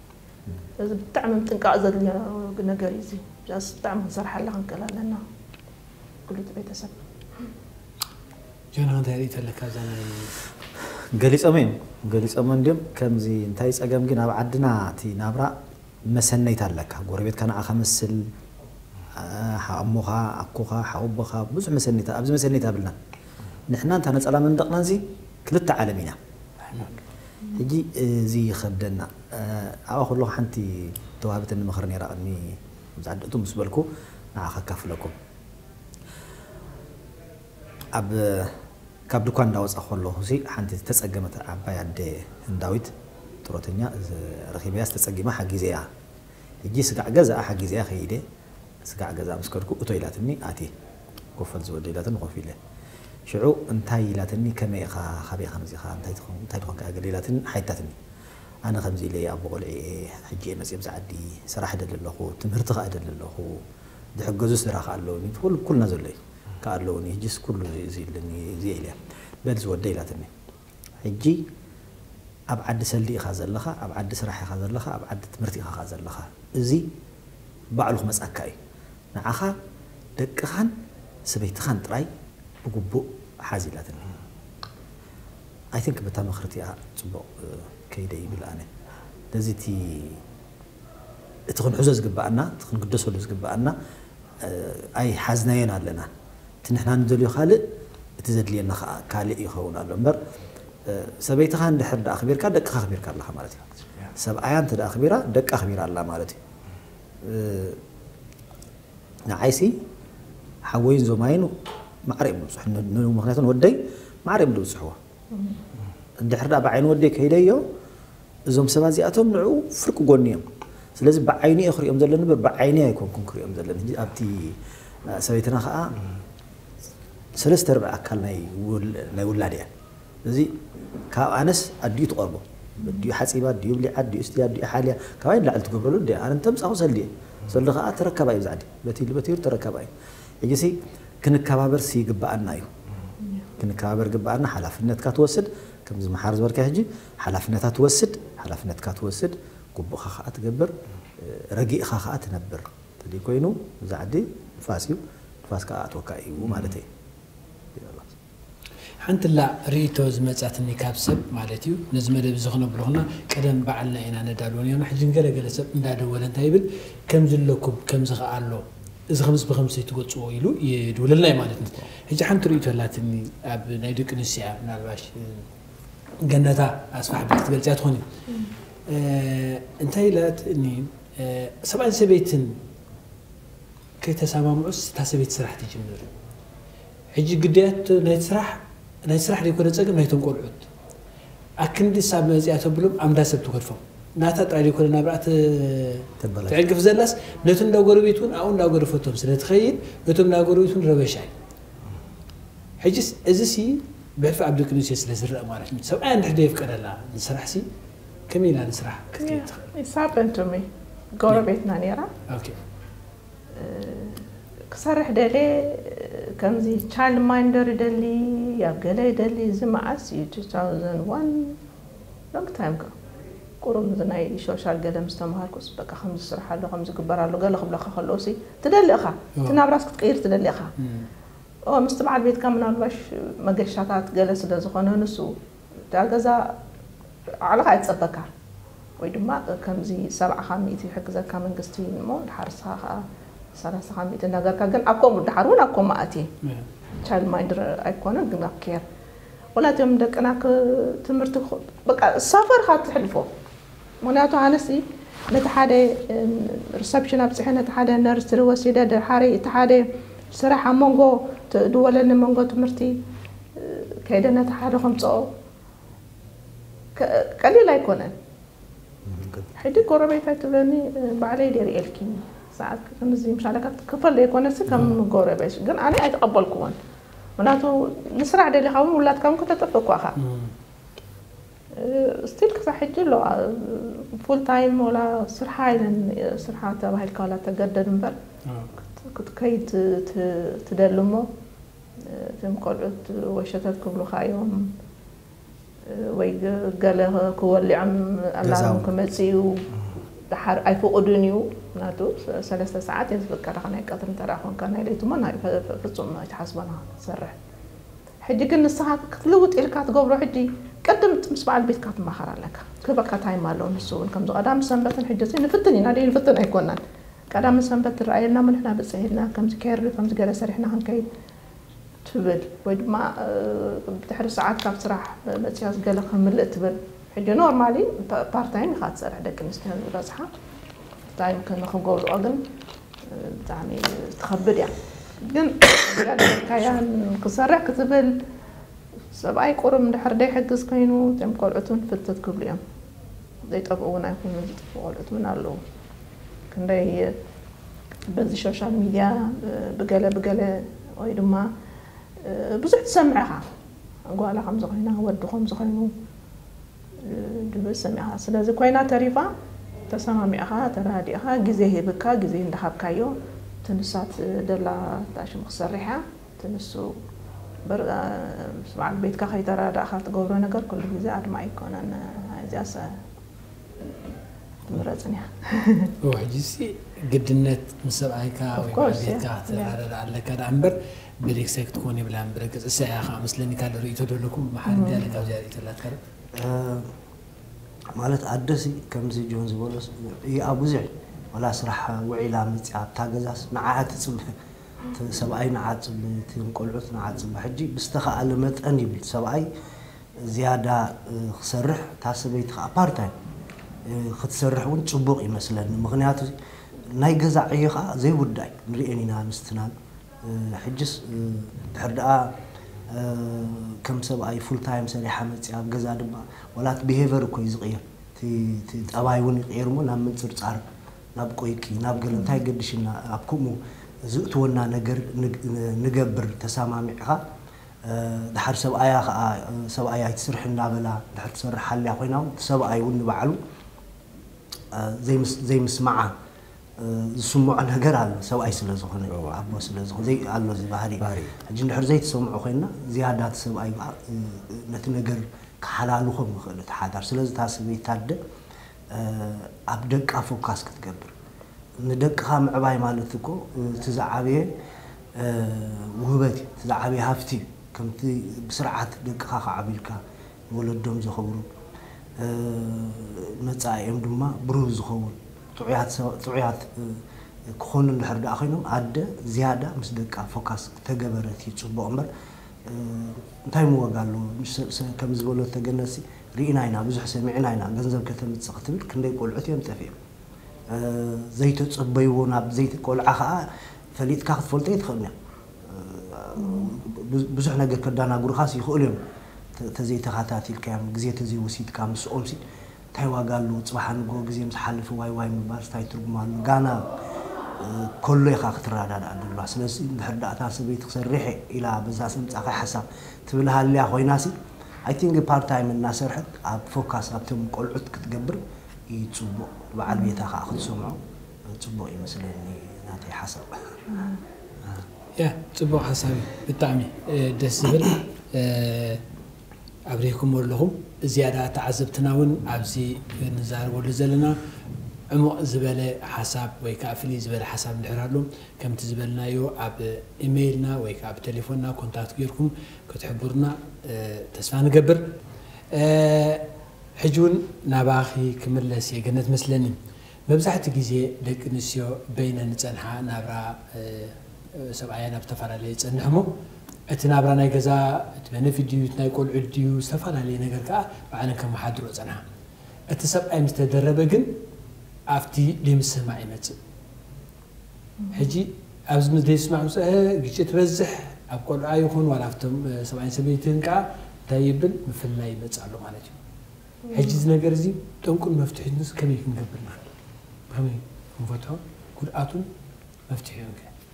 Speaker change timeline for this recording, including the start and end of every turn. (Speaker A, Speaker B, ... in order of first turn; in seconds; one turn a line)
Speaker A: 0.8-5.2
Speaker A: 6.3-7.0
Speaker B: 8.7-10.3
Speaker C: 11.1-15.6
Speaker C: 16.1-18.3
Speaker C: 19.1-23.0
Speaker C: 23.7-26.2
Speaker C: 27.5-33.8
Speaker C: 34.4-35.1
Speaker C: 37.9-38.5
Speaker C: 39.1-42.9
Speaker C: 43.4-45.9
Speaker C: 46.6-48.2
Speaker C: 48.8-50.7
Speaker C: 51.4-52.6
Speaker C: 53.3-58.0
Speaker C: 58.6-63.6
Speaker C: 64.2-70.3
Speaker C: 71.0-71.4
Speaker C: 72.5-76.8
Speaker C: 77.7-78.6
Speaker C: 79.1-79.5
Speaker C: 80.2-80.7
Speaker C: 81.3-82.1
Speaker C: 82.6-84.1
Speaker C: 85.7-88.7
Speaker C: 89.3-90.2
Speaker C: 91.5-93.7
Speaker C: 94.4-96.1
Speaker C: 96.6-97.6
Speaker C: 98.2-100.2
Speaker C: 100.8-106.4
Speaker C: 107.2-107.8
Speaker C: 109.3-109.8
Speaker C: 110.7-111.5
Speaker C: 112.0-115.0
Speaker C: 116.2-117.6
Speaker C: 118.5-120.4
Speaker C: 121.0-126.0
Speaker C: 127.3-129.7
Speaker C: 130.2-130.6
Speaker C: 131.1-139.9
Speaker C: 140.4-142.7
Speaker C: 143.6-156.9
Speaker C: 157.7-158.1
Speaker B: 159.0-175.4
Speaker B: 176.2-178.1
Speaker B: 178.9-182.5
Speaker B: 184.0-186.1
Speaker B: 187.1-190.7
Speaker B: 191.6-201.3
Speaker C: 196.2-196.6
Speaker B: 202.8-207.7
Speaker B: 208.3-209.7
Speaker A: 209.2-212.1
Speaker B: 212.3-212.6
Speaker A: 213.5-221.6
Speaker A: 222.3-222.9
Speaker A: 223.6-230.7
Speaker B: 230.8-231.1
Speaker A: 231.7-235.3
Speaker A: 235.9-236.5
Speaker A: 237.4-238.3
Speaker A: 239.0-246.3
Speaker A: 247.0-248.8
Speaker A: 249.5-253.3
Speaker A: 254.0-263.0
Speaker A: 263.6-265.3
Speaker A: 266.9-268.1
Speaker C: 269.1-269.5
Speaker A: 269.6-276.7
Speaker A: 277.4-280.2
Speaker B: 280.2-280.5
Speaker A: 281.7-288.2
Speaker B: 288.4-288.7
Speaker A: 289.0-291.3
Speaker A: 292.0-294.7
Speaker A: 295.9-299.6
Speaker C: 298.4-298.9
Speaker A: 300.3-307.4
Speaker A: 308.2-316.8
Speaker A: 317.3-321.1
Speaker A: 322.0-330.3
Speaker A: 331.1-332.4
Speaker A: 333.1-338.2
Speaker A: 339.1-342.6
Speaker A: 343.5-345.6
Speaker A: 346.5-347.1
Speaker A: 348.1-351.5
Speaker A: 352.2-353.4
Speaker A: 354.1-355.9
Speaker A: 357.0-359.3
Speaker A: 359.9-367.0
Speaker A: 367.7-373.0
Speaker A: 374.7-375.9
Speaker B: 376.0-386.0
Speaker A: 378.6-379.7
Speaker A: 384.7-385.1
Speaker D: 386.3-386.9
Speaker D: 387.9-394.3
Speaker D: 394.9-399.5
Speaker D: 400.2-403.1
Speaker D: 403.9-406.3
Speaker D: 406.9-412.3
Speaker D: 412.9-420.6
Speaker D: 421.1-427.2
Speaker D: 427.8-433.4
Speaker D: 434.7-436.1
Speaker D: 436.8-448.2
Speaker C: 441.0-441.3
Speaker D: 448.9-451.1
Speaker D: 451.8-454.5
Speaker D: 455.1-461.4
Speaker D: 462.2-472.1
Speaker D: 472.6-479.9
Speaker D: 480.7-485.1
Speaker D: 485.7-489.0
Speaker A: 486.4-486.7
Speaker D: 489.6-492.4
Speaker D: 492.9-496.9
Speaker D: 497.6-504.3
Speaker D: 504.8-513.8
Speaker A: 509.9-510.2
Speaker A: 513.9-514.2
Speaker B: 515.2-519.0
Speaker B: 519.9-524.4
Speaker B: 525.1-535.1
Speaker B: 535.7-536.5
Speaker B: 537.0-546.3
Speaker B: 546.9-552.2
Speaker B: 552.9-554.4
Speaker B: 555.1-556.6
Speaker A: 558.0-558.3
Speaker B: 558.1-566.2
Speaker A: 566.9-567.2
Speaker B: 566.9-569.9
Speaker B: 570.5-572.5
Speaker B: 573.1-573.7